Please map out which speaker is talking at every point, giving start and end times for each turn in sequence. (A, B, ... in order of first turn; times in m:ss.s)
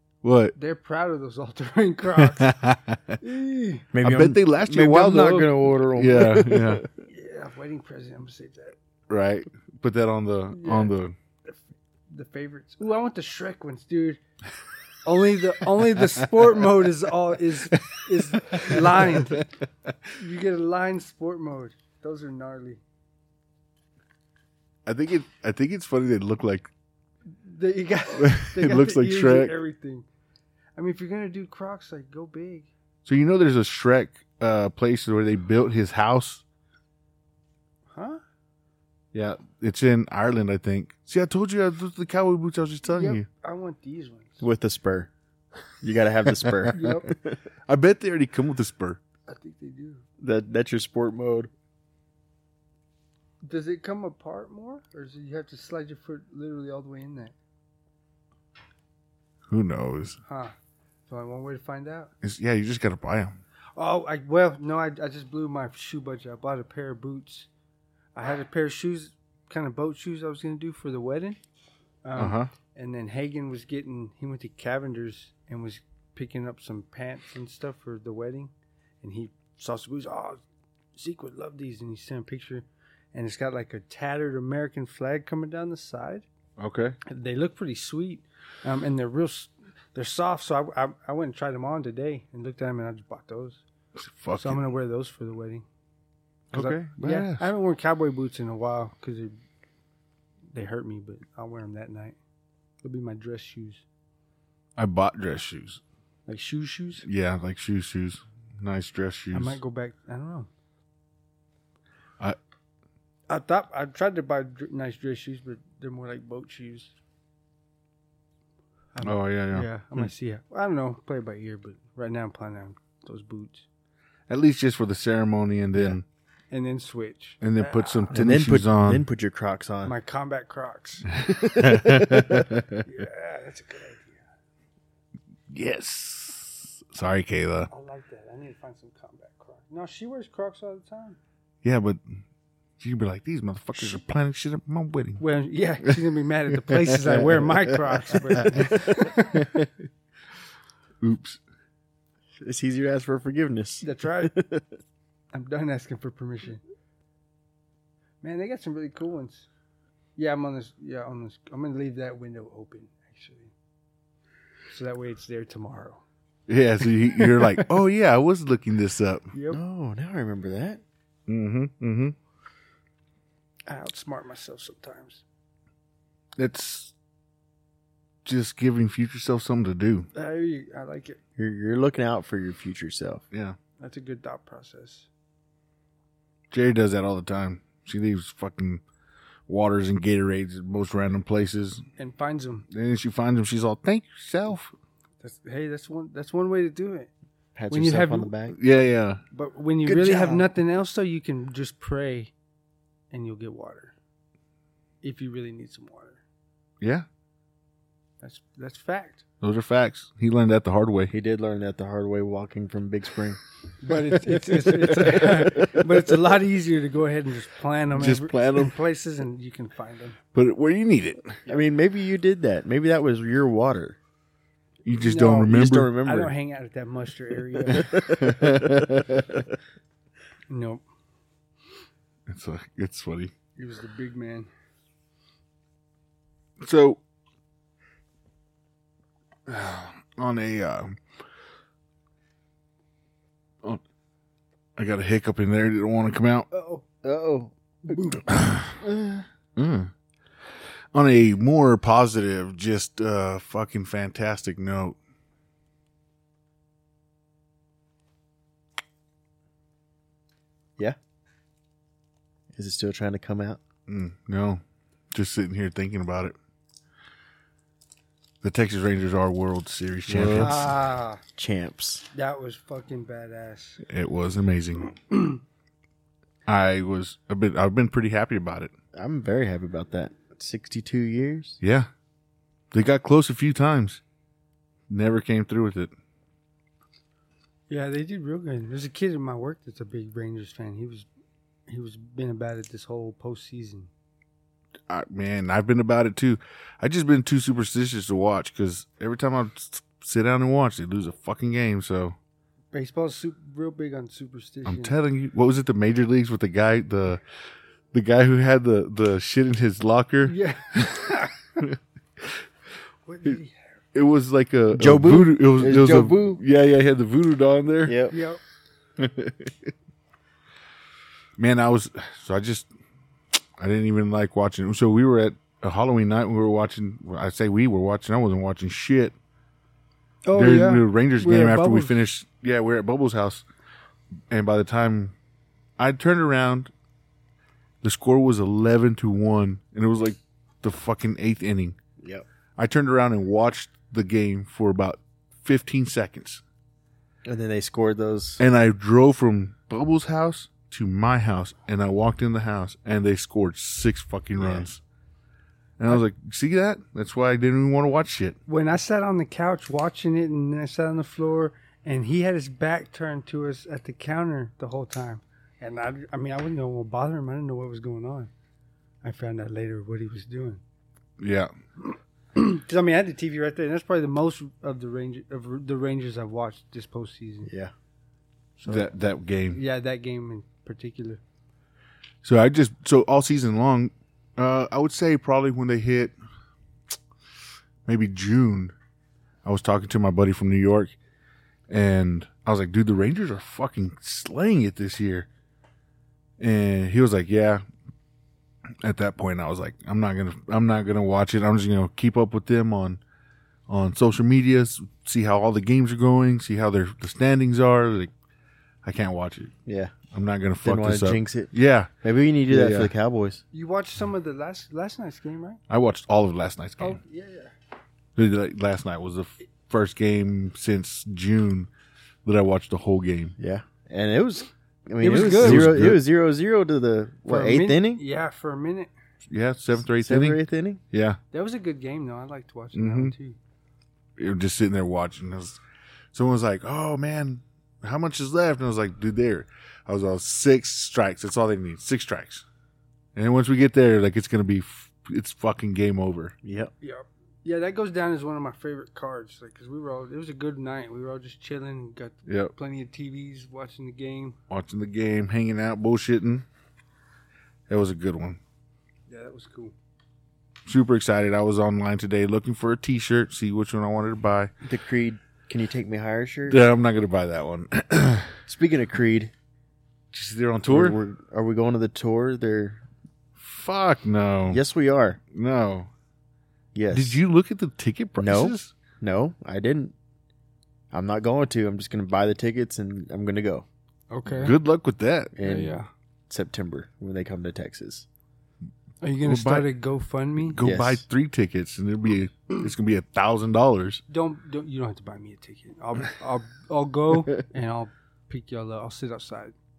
0:00.2-0:00.5 A
0:00.5-0:02.5 B
0:02.2-0:03.2 A
0:03.2-0:03.9 B
0:03.9-0:06.8 C
0:04.0-0:06.8 A
0:07.0-0:08.8 B
0:09.1-0:11.1 A
0:10.5-0:10.9 B
0:11.5-0:14.2 B
0:15.0-0:19.5 B
0:17.8-0:19.2 A
0:20.1-0:22.8 B
0:24.8-0:26.7 A
0:27.3-0:30.0 B
0:28.2-0:29.5 A
0:30.8-0:32.7 B
0:33.0-0:36.4 A
0:37.9-0:38.2 B
0:39.1-0:43.2 A
0:42.9-0:44.4 B
0:44.4-0:45.1 C
0:45.8-0:47.4 C
0:46.3-0:47.0 A
0:46.7-0:47.1 B
0:47.6-0:49.0 A
0:49.3-0:50.0 B
0:50.2-0:51.5 C
0:53.4-0:57.3 B
0:59.5-1:00.2 A
1:00.2-1:00.5 B
1:01.1-1:02.1 B
1:02.2-1:03.4 A
1:03.8-1:07.5 B
1:08.1-1:11.4 B
1:12.0-1:20.4 B
1:12.1-1:12.5 A
1:21.0-1:26.2 B
1:26.6-1:27.0 A
1:27.0-1:33.6 B
1:34.0-1:34.6 A
1:34.3-1:35.6 B
1:36.5-1:37.5 A
1:36.5-1:39.3 B
1:40.5-1:42.2 B
1:42.8-1:43.8 B
1:44.8-1:45.8 A
1:46.3-1:47.0 B
1:47.0-1:49.6 A
1:49.3-1:50.5 B
1:53.3-1:56.9 B
1:58.9-2:03.6 B
1:59.0-1:59.6 A
2:04.3-2:06.0 A
2:06.5-2:08.1 B
2:07.4-2:09.0 A
2:08.1-2:09.9 C
2:09.8-2:11.1 B
2:11.1-2:12.8 A
2:11.6-2:12.1 C
2:12.8-2:14.2 B
2:15.5-2:17.7 A
2:17.7-2:21.2 B
2:21.6-2:22.2 A
2:22.8-2:25.2 A
2:25.2-2:29.5 B
2:26.7-2:28.7 A
2:29.3-2:29.7 A
2:31.0-2:31.4 A
2:32.4-2:34.7 C
2:33.8-2:34.3 B
2:35.3-2:36.6 B
2:38.2-2:39.5 B
2:40.2-2:43.5 B
2:44.7-2:46.0 B
2:46.5-2:49.2 A
2:49.3-2:49.6 B
2:49.5-2:50.8 C
2:51.3-2:52.1 A
2:53.7-2:55.2 B
2:56.4-2:56.9 A
2:58.2-3:00.1 A
3:00.1-3:01.2 B
3:01.4-3:03.2 C
3:03.3-3:03.6 A
3:03.8-3:05.1 B
3:06.5-3:08.8 A
3:09.5-3:11.8 A
3:12.0-3:12.6 B
3:12.7-3:14.7 A
3:15.2-3:17.1 B
3:17.5-3:18.6 C
3:17.7-3:18.3 B
3:18.5-3:19.2 A
3:19.3-3:22.3 B
3:19.9-3:20.4 C
3:23.1-3:23.9 B
3:25.0-3:26.2 B
3:26.8-3:27.0 A
3:28.2-3:29.2 B
3:29.4-3:31.1 A
3:31.1-3:33.4 C
3:33.8-3:40.2 B
3:35.0-3:35.7 C
3:37.9-3:38.7 A
3:40.3-3:41.4 A
3:41.5-3:44.0 C
3:44.8-3:45.9 A
3:45.0-3:48.3 B
3:45.5-3:46.3 C
3:47.7-3:49.1 C
3:48.2-3:49.2 A
3:50.5-3:50.8 B
3:52.3-3:53.3 A
3:53.6-3:54.5 B
3:56.6-3:57.0 A
3:59.5-4:01.0 A
4:04.8-4:06.5 A
4:06.5-4:06.8 B
4:07.0-4:08.2 C
4:07.9-4:08.2 B
4:08.3-4:08.8 A
4:08.8-4:09.2 C
4:09.6-4:09.9 A
4:10.9-4:15.0 A
4:22.5-4:23.6 C
4:23.9-4:24.6 A
4:25.1-4:26.3 A
4:28.4-4:30.7 A
4:30.1-4:30.6 C
4:30.4-4:31.2 B
4:31.4-4:32.0 C
4:32.1-4:33.8 B
4:33.9-4:35.0 A
4:35.1-4:35.4 B
4:36.5-4:38.7 A
4:38.9-4:41.6 C
4:41.6-4:41.9 A
4:42.7-4:44.0 A
4:44.9-4:45.9 A
4:47.7-4:51.1 B
4:51.7-4:53.9 B
4:54.9-5:02.2 A
5:02.7-5:04.9 B
5:04.6-5:07.2 A
5:07.9-5:11.1 A
5:10.2-5:11.6 B
5:11.6-5:12.3 A
5:13.0-5:13.6 B
5:13.9-5:18.0 A
5:14.7-5:16.4 C
5:17.8-5:18.2 C
5:18.1-5:18.4 B
5:19.0-5:19.7 A
5:21.4-5:22.7 A
5:23.6-5:29.1 A
5:30.2-5:31.9 B
5:30.3-5:33.4 A
5:34.3-5:35.1 A
5:35.8-5:36.7 A
5:37.8-5:41.8 A
5:42.0-5:42.2 C
5:42.6-5:46.4 A
5:47.2-5:48.4 C
5:48.4-5:54.8 A
5:54.4-5:54.7 C
5:55.8-5:58.4 A
5:58.5-6:08.3 B
6:09.0-6:10.6 B
6:11.2-6:11.5 A
6:11.8-6:17.5 B
6:17.4-6:17.7 C
6:18.6-6:18.9 B
6:18.6-6:19.6 A
6:19.5-6:21.2 B
6:22.2-6:26.1 A
6:27.8-6:28.7 A
6:29.4-6:31.0 A
6:31.7-6:35.3 A
6:36.4-6:37.6 A
6:38.8-6:43.0 A
6:43.7-6:48.1 A
6:48.8-6:49.5 A
6:49.6-6:50.0 C
6:50.1-6:51.9 A
6:50.6-6:51.5 C
6:52.0-6:53.4 C
6:52.5-6:52.9 A
6:53.5-6:55.6 B
6:55.7-6:57.0 A
6:56.8-6:57.5 B
6:58.2-7:01.7 A
7:02.2-7:03.3 A
7:03.4-7:08.0 C
7:05.0-7:05.8 B
7:05.4-7:06.0 A
7:07.2-7:08.9 B
7:09.3-7:10.4 A
7:10.0-7:10.8 C
7:10.9-7:11.2 A
7:11.3-7:13.4 B
7:12.7-7:13.1 A
7:14.2-7:15.6 A
7:16.1-7:22.4 A
7:23.1-7:26.3 A
7:26.4-7:26.7 C
7:26.8-7:34.4 B
7:32.3-7:32.5 A
7:34.5-7:36.4 A
7:37.7-7:38.4 A
7:39.1-7:39.7 B
7:40.6-7:44.5 A
7:44.6-7:46.6 C
7:46.5-7:48.4 A
7:48.4-7:49.3 C
7:50.1-7:51.0 A
7:50.6-7:52.8 C
7:53.4-7:54.6 A
7:54.5-7:55.2 C
7:55.3-7:55.9 A
7:56.7-7:57.2 C
7:56.9-7:58.7 A
7:58.2-7:59.9 C
8:00.9-8:03.6 C
8:04.1-8:04.5 B
8:04.3-8:05.4 A
8:05.4-8:08.1 C
8:05.4-8:05.9 B
8:09.0-8:10.6 B
8:09.2-8:09.7 A
8:10.4-8:14.0 A
8:10.6-8:11.0 C
8:14.1-8:19.5 B